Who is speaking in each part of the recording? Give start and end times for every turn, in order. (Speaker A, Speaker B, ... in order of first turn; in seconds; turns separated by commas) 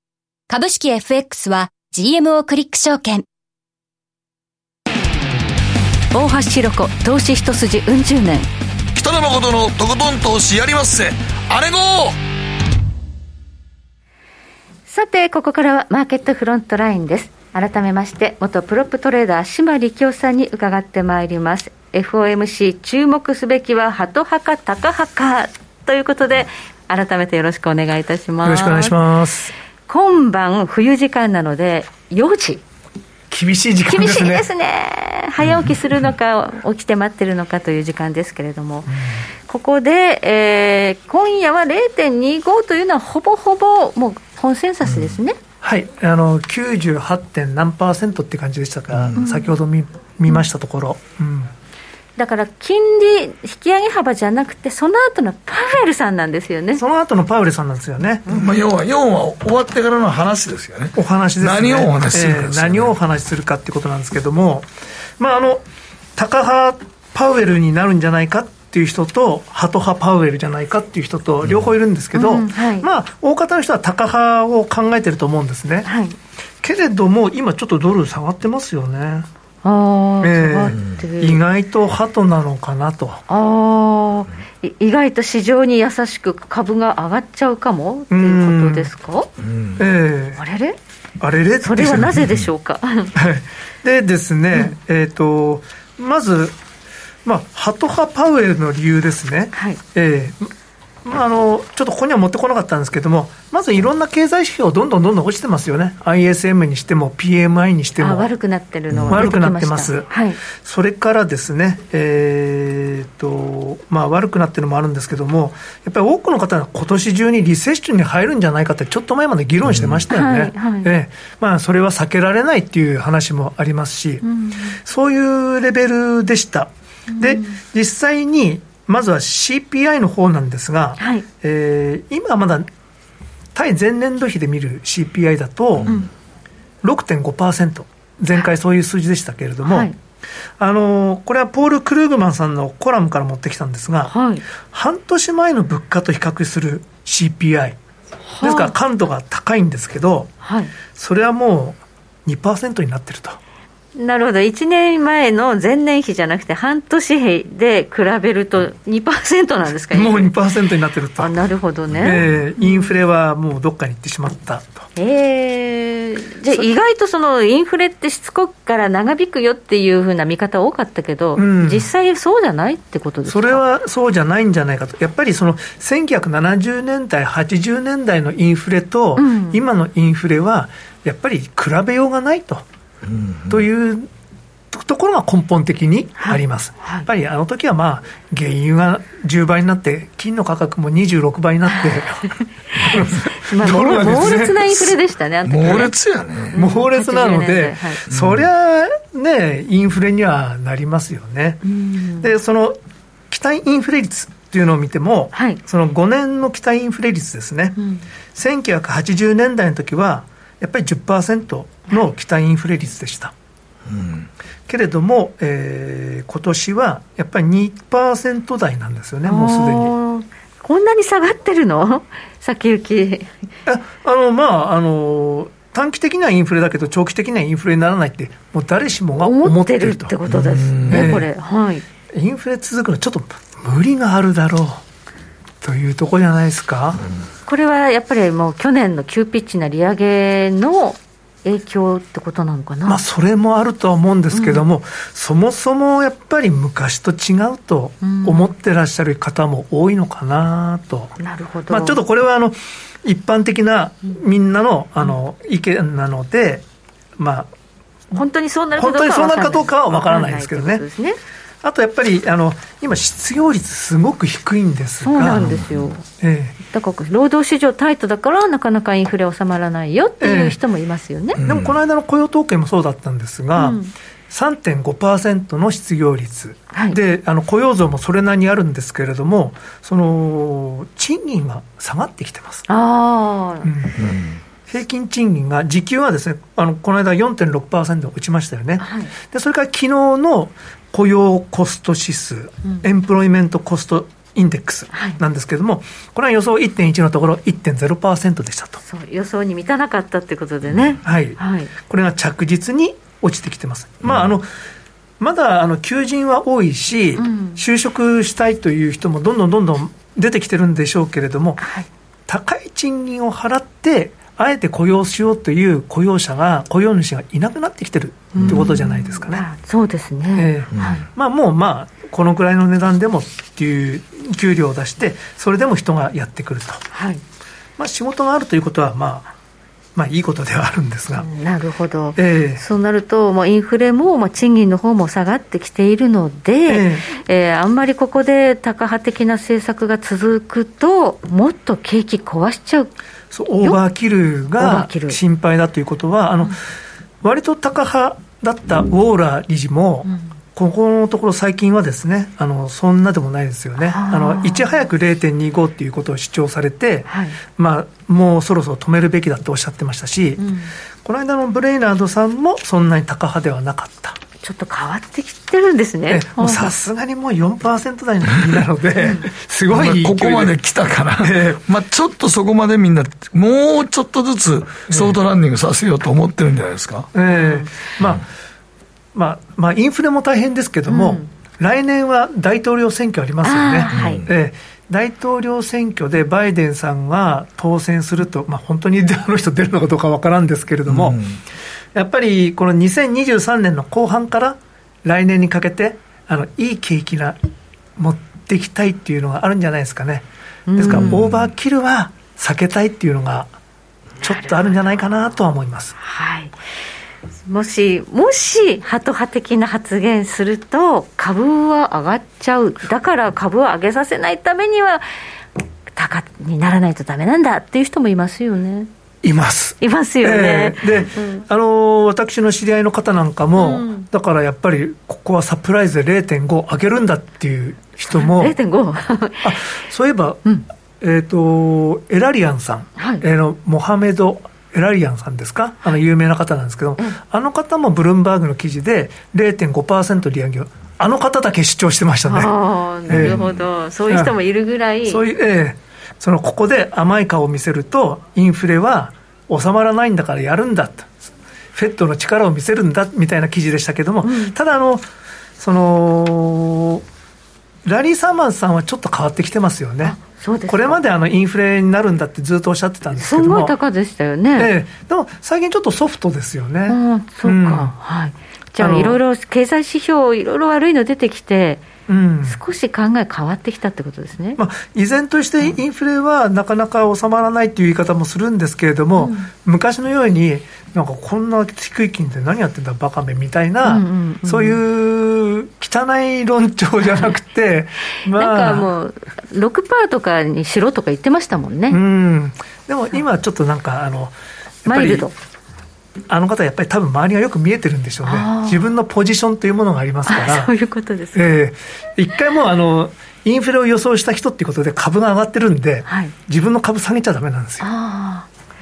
Speaker A: 0.5-3.2, Speaker B: 6.1-8.5, Speaker C: 8.9-12.2, Speaker B: 14.9-29.0, Speaker D: 28.4-29.5, Speaker B: 29.9-32.6, Speaker D: 33.3-34.5, Speaker B: 33.9-38.9, Speaker C: 35.5-35.7, Speaker D: 38.9-39.2, Speaker B: 39.5-45.4, Speaker C: 44.9-45.2, Speaker D: 45.6-51.5, Speaker C: 48.9-49.2, Speaker B: 49.2-49.5, Speaker B: 52.2-56.8, Speaker D: 56.8-58.3, Speaker C: 58.3-62.9, Speaker D: 61.0-65.6, Speaker D: 66.2-75.9, Speaker C: 71.4-71.7, Speaker B: 72.1-72.9, Speaker B: 75.9-76.2, Speaker D: 76.6-79.3, Speaker B: 79.6-81.4, Speaker D: 80.2-83.2, Speaker C: 80.7-81.0, Speaker B: 83.3-89.3, Speaker D: 88.1-88.9, Speaker C: 89.4-89.8, Speaker D: 89.8-90.4, Speaker B: 90.4-90.8, Speaker D: 91.2-92.2, Speaker B: 91.6-93.1, Speaker C: 92.2-92.4, Speaker D: 93.2-96.6, Speaker D: 97.2-100.5, Speaker B: 99.5-99.8, Speaker D: 101.0-108.3, Speaker B: 108.0-110.4, Speaker C: 108.9-109.3, Speaker D: 109.1-124.2, Speaker C: 119.7-120.0, Speaker B: 120.1-120.9, Speaker B: 124.2-124.8, Speaker D: 124.8-132.7, Speaker B: 127.1-127.6, Speaker B: 131.0-131.2, Speaker D: 133.6-135.9, Speaker C: 135.8-136.0, Speaker D: 136.8-139.9, Speaker B: 139.6-139.9, Speaker D: 140.6-144.1, Speaker B: 144.1-144.4, Speaker D: 144.7-147.8, Speaker B: 148.3-148.7, Speaker D: 148.4-150.3, Speaker B: 150.4-150.7, Speaker D: 150.9-153.4, Speaker B: 153.9-160.3, Speaker D: 159.9-161.3, Speaker B: 161.2-162.9, Speaker D: 162.0-164.9, Speaker B: 165.0-173.6, Speaker D: 171.4-171.9, Speaker D: 173.3-182.7, Speaker B: 179.2-179.6, Speaker C: 183.1-183.6, Speaker D: 183.5-184.1, Speaker D: 184.7-192.4, Speaker B: 186.2-187.1, Speaker B: 192.8-195.9, Speaker D: 192.9-194.7, Speaker C: 193.8-194.9, Speaker C: 195.5-196.6, Speaker B: 196.5-198.0, Speaker D: 196.6-201.6, Speaker C: 198.1-198.4, Speaker B: 201.7-202.3, Speaker D: 202.2-202.8, Speaker D: 203.3-207.8, Speaker B: 207.8-208.0, Speaker D: 208.3-213.3, Speaker C: 213.9-214.3, Speaker D: 214.7-219.9, Speaker B: 219.2-223.5, Speaker D: 223.7-230.2, Speaker B: 229.2-231.8, Speaker C: 230.3-231.1, Speaker D: 230.9-231.3, Speaker D: 232.1-234.8, Speaker D: 235.6-237.1, Speaker B: 237.5-243.0, Speaker D: 242.9-251.2, Speaker B: 244.3-244.6, Speaker B: 248.0-248.5, Speaker B: 251.2-252.0, Speaker D: 251.7-256.6, Speaker D: 257.2-257.5, Speaker B: 258.1-261.2, Speaker D: 258.8-260.9, Speaker D: 261.6-265.5, Speaker B: 265.0-266.0, Speaker C: 265.4-265.9, Speaker D: 266.2-266.6, Speaker B: 266.6-271.4, Speaker D: 270.2-270.6, Speaker C: 271.4-271.8, Speaker D: 271.4-282.6, Speaker B: 273.6-273.9, Speaker B: 282.7-283.7, Speaker D: 283.6-284.0, Speaker C: 284.0-284.4, Speaker D: 284.7-298.8, Speaker B: 288.8-289.1, Speaker B: 294.9-295.2, Speaker B: 298.9-301.7, Speaker C: 300.7-301.0, Speaker D: 301.0-304.5, Speaker D: 305.2-311.7, Speaker B: 307.2-307.6, Speaker B: 311.6-311.9, Speaker D: 312.3-319.5, Speaker B: 318.3-321.0, Speaker C: 318.4-318.6, Speaker D: 320.4-326.8, Speaker C: 320.7-321.0, Speaker B: 326.9-327.2, Speaker D: 327.8-329.3, Speaker D: 330.0-331.3, Speaker B: 331.1-342.9, Speaker D: 332.2-332.6, Speaker D: 336.7-337.1, Speaker D: 343.3-346.6, Speaker B: 344.6-345.2, Speaker D: 347.2-360.4, Speaker B: 350.1-350.3, Speaker B: 353.8-354.9, Speaker B: 357.1-357.4, Speaker B: 360.4-360.7, Speaker D: 361.0-364.2, Speaker B: 364.4-366.7, Speaker D: 366.1-370.6, Speaker B: 369.0-369.3, Speaker C: 369.7-377.1, Speaker D: 371.2-371.6, Speaker D: 374.9-375.2, Speaker D: 377.1-378.2, Speaker B: 377.3-377.8, Speaker D: 379.1-391.2, Speaker B: 380.9-381.3, Speaker B: 383.4-384.2, Speaker C: 383.9-384.3, Speaker C: 390.9-391.4, Speaker D: 391.9-397.4, Speaker D: 398.0-403.5, Speaker B: 400.7-401.2, Speaker C: 400.8-401.5, Speaker B: 404.2-404.8, Speaker D: 404.2-405.9, Speaker B: 406.0-406.6, Speaker B: 407.4-415.1, Speaker B: 416.0-418.9, Speaker D: 419.2-428.6, Speaker B: 419.8-421.4, Speaker B: 423.6-424.1, Speaker B: 428.1-429.5, Speaker D: 429.4-430.4, Speaker D: 431.0-442.5, Speaker B: 433.0-433.2, Speaker B: 442.3-445.2, Speaker D: 443.1-443.4, Speaker C: 443.1-443.7, Speaker D: 444.1-444.4, Speaker D: 445.1-455.1, Speaker B: 454.2-454.6, Speaker D: 455.6-457.0, Speaker D: 457.8-460.2, Speaker B: 460.0-461.0, Speaker D: 460.7-463.8, Speaker B: 463.1-464.7, Speaker D: 464.6-467.9, Speaker B: 466.9-471.8, Speaker D: 468.8-469.2, Speaker D: 472.1-472.6, Speaker B: 472.5-474.6, Speaker D: 474.6-488.9, Speaker B: 479.2-479.5, Speaker B: 483.8-484.8, Speaker B: 488.3-492.0, Speaker D: 491.9-495.3, Speaker B: 494.9-495.3, Speaker D: 496.3-500.7, Speaker B: 498.2-498.9, Speaker B: 500.3-501.5, Speaker D: 501.3-507.9, Speaker B: 506.1-506.3, Speaker B: 507.8-508.5